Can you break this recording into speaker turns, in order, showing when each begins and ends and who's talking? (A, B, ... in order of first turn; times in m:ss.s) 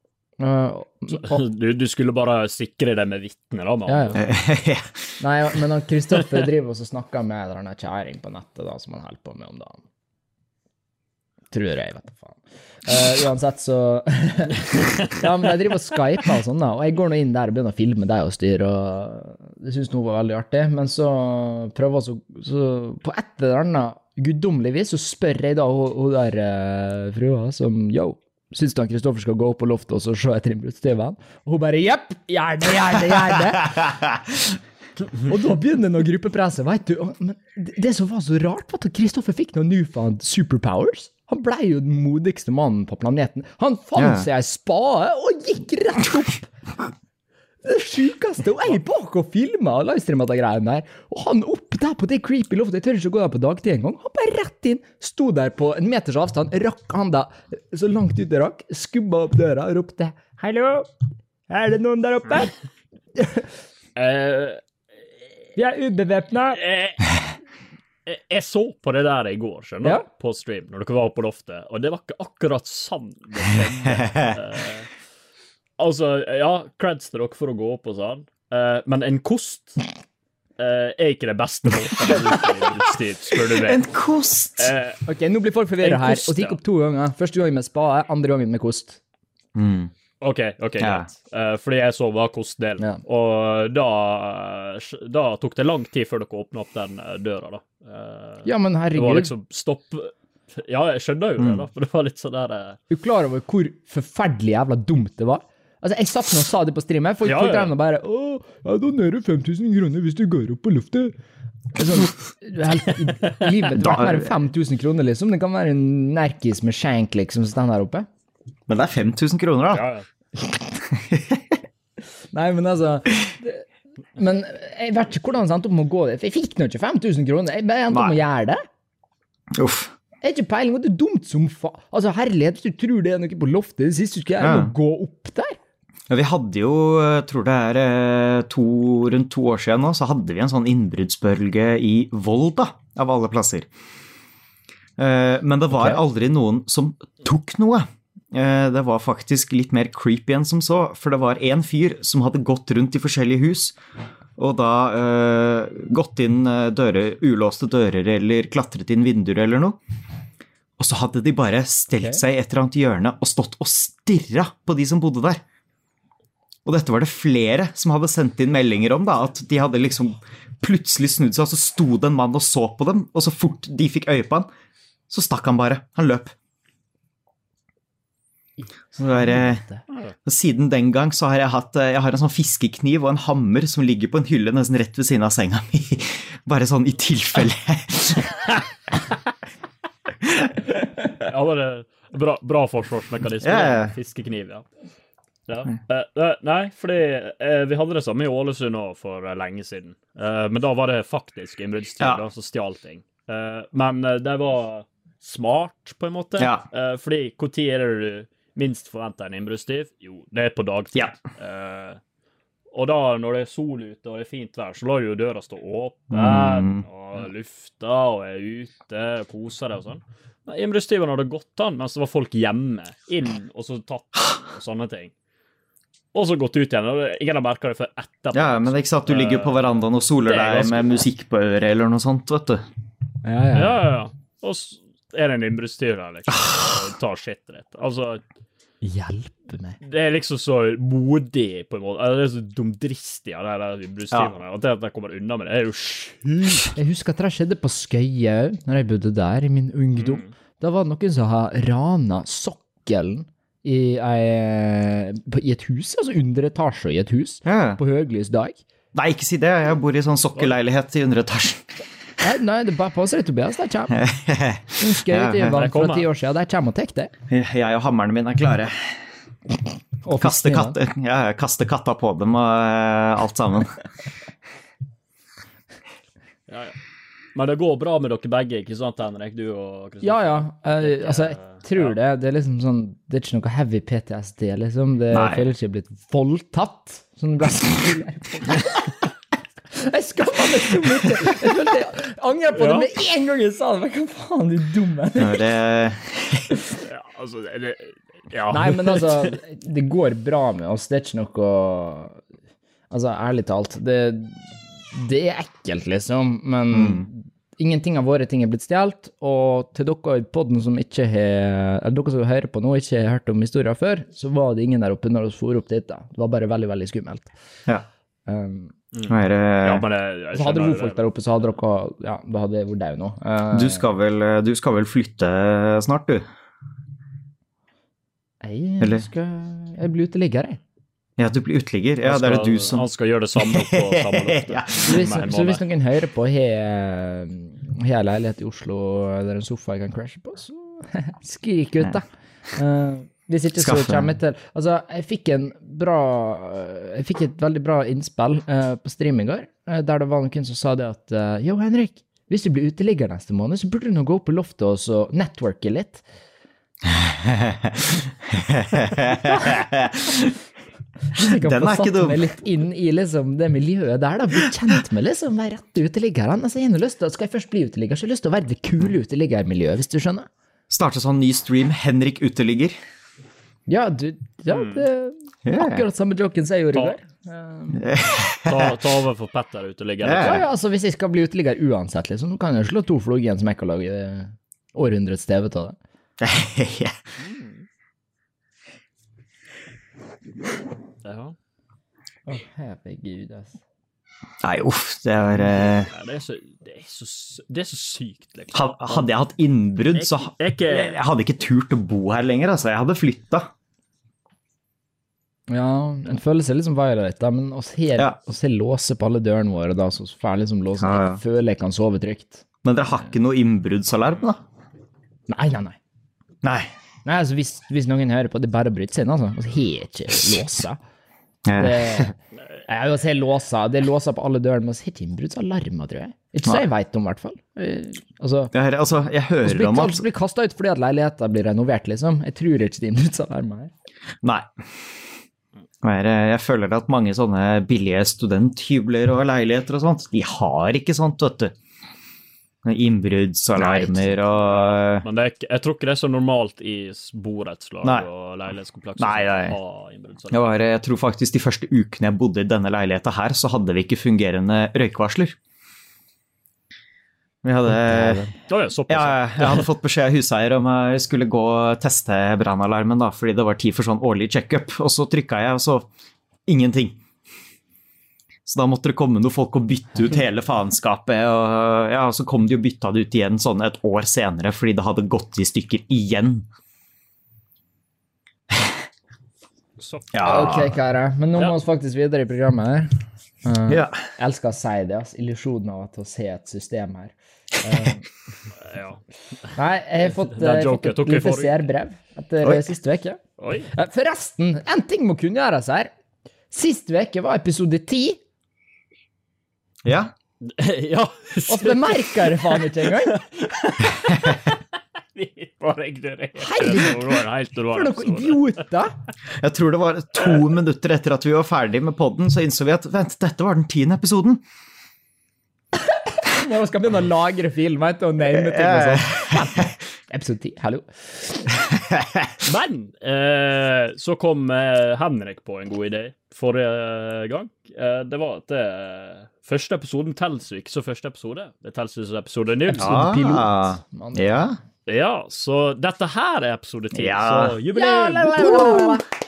0:00.4-0:01.4 A
0:01.1-0:04.2 B
0:03.9-0:04.2 A
0:04.2-0:05.1 C
0:05.2-0:09.8 A
0:11.5-0:33.9 A
0:35.2-0:46.5 A
0:44.0-0:44.3 C
0:47.6-1:00.9 A
1:01.5-1:02.5 A
1:03.2-1:03.5 A
1:04.0-1:04.6 B
1:05.6-1:06.6 A
1:06.6-1:07.2 B
1:08.1-1:14.9 B
1:13.5-1:14.4 C
1:15.8-1:19.8 B
1:20.6-1:23.8 B
1:23.3-1:24.7 C
1:24.6-1:25.0 B
1:25.1-1:29.0 A
1:25.8-1:26.6 B
1:29.6-1:29.9 C
1:30.2-1:42.8 B
1:30.8-1:31.1 C
1:38.4-1:39.3 A
1:41.4-1:41.6 C
1:42.9-1:51.2 A
1:47.2-1:47.7 B
1:51.8-1:58.1 A
1:53.8-1:54.3 C
1:58.7-1:59.9 C
1:59.7-2:00.0 B
2:00.8-2:01.6 C
2:02.3-2:08.6 A
2:07.9-2:08.2 C
2:09.5-2:09.9 C
2:10.2-2:15.6 A
2:14.4-2:14.7 C
2:16.1-2:23.7 C
2:25.0-2:33.8 C
2:25.7-2:26.0 A
2:34.4-2:39.8 C
2:40.8-2:45.4 C
2:46.6-2:54.5 C
2:55.1-2:56.4 C
2:58.9-2:59.8 A
2:59.0-2:59.6 C
3:00.2-3:08.6 C
3:10.2-3:10.6 C
3:11.1-3:14.6 B
3:13.4-3:13.9 C
3:15.5-3:32.0 B
3:26.4-3:26.6 C
3:32.7-3:45.1 B
3:36.1-3:36.9 C
3:46.1-3:51.0 B
3:48.3-3:52.6 C
3:53.2-3:53.8 A
3:53.6-3:58.2 B
3:58.8-3:59.8 A
3:59.8-4:06.7 B
4:06.8-4:18.6 A
4:10.0-4:10.3 B
4:17.4-4:17.8 C
4:18.9-4:21.8 C
4:22.2-4:24.0 A
4:23.9-4:25.6 C
4:24.8-4:27.1 A
4:25.4-4:26.1 B
4:27.3-4:29.0 C
4:30.0-4:30.8 A
4:30.2-4:33.8 C
4:36.5-4:36.8 B
4:37.3-4:42.0 B
4:40.0-4:48.9 A
4:45.1-4:45.5 C
4:49.7-4:55.4 A
4:52.6-4:52.9 B
4:55.2-4:56.6 C
4:56.8-4:59.3 B
4:58.5-5:02.2 A
5:02.9-5:17.3 A
5:06.7-5:07.1 C
5:18.3-5:18.7 A
5:18.9-5:21.6 B
5:19.1-5:19.8 C
5:20.3-5:23.8 A
5:23.5-5:26.2 C
5:28.4-5:30.6 A
5:28.8-5:29.1 C
5:31.2-5:35.0 C
5:32.0-5:35.6 B
5:34.9-5:56.0 A
5:43.6-5:44.1 C
5:56.8-6:00.3 C
6:01.1-6:10.3 A
6:01.2-6:02.2 C
6:10.7-6:12.8 C
6:13.7-6:17.8 A
6:14.5-6:14.8 B
6:15.5-6:15.8 C
6:17.8-6:18.8 C
6:18.5-6:20.4 B
6:20.0-6:20.4 C
6:20.1-6:25.8 A
6:26.2-6:27.0 C
6:27.2-6:27.7 B
6:31.0-6:31.4 B
6:32.3-6:33.6 A
6:34.4-6:35.9 C
6:35.4-6:39.1 B
6:38.5-6:43.5 C
6:40.0-6:41.0 B
6:45.5-6:52.4 A
6:50.8-6:51.2 C
6:52.6-6:54.4 C
6:55.3-6:55.8 A
6:56.4-6:56.7 C
6:57.0-7:00.8 A
7:01.5-7:02.1 C
7:01.6-7:08.5 A
7:08.5-7:10.0 C
7:09.4-7:13.7 A
7:14.2-7:14.5 C
7:15.8-7:21.6 C
7:22.6-7:25.1 C
7:23.6-7:30.4 B
7:29.0-7:29.6 C
7:30.3-7:35.4 C
7:37.4-7:38.3 C
7:37.8-7:38.3 A
7:38.5-7:39.7 B
7:38.9-7:45.9 C
7:46.5-7:47.0 C
7:48.5-7:56.5 C
7:59.8-8:00.5 B
8:00.1-8:00.8 C
8:00.2-8:08.1 A
8:03.7-8:04.0 C
8:08.6-8:09.0 B
8:09.5-8:13.2 A
8:10.2-8:11.6 B
8:12.4-8:12.7 C
8:13.4-8:13.7 B
8:13.7-8:15.9 A
8:16.5-8:18.2 A
8:19.8-8:20.1 C
8:20.4-8:24.6 B
8:21.5-8:23.2 A
8:25.2-8:28.5 B
8:26.4-8:27.2 A
8:27.7-8:28.9 A
8:29.3-8:34.4 C
8:35.8-8:41.5 A
8:38.4-8:39.6 C
8:41.6-8:42.4 C
8:42.4-8:53.0 B
8:52.7-8:54.3 A
8:52.7-8:54.6 C
8:54.9-8:59.0 B
8:56.9-8:57.6 C
8:57.7-8:59.0 A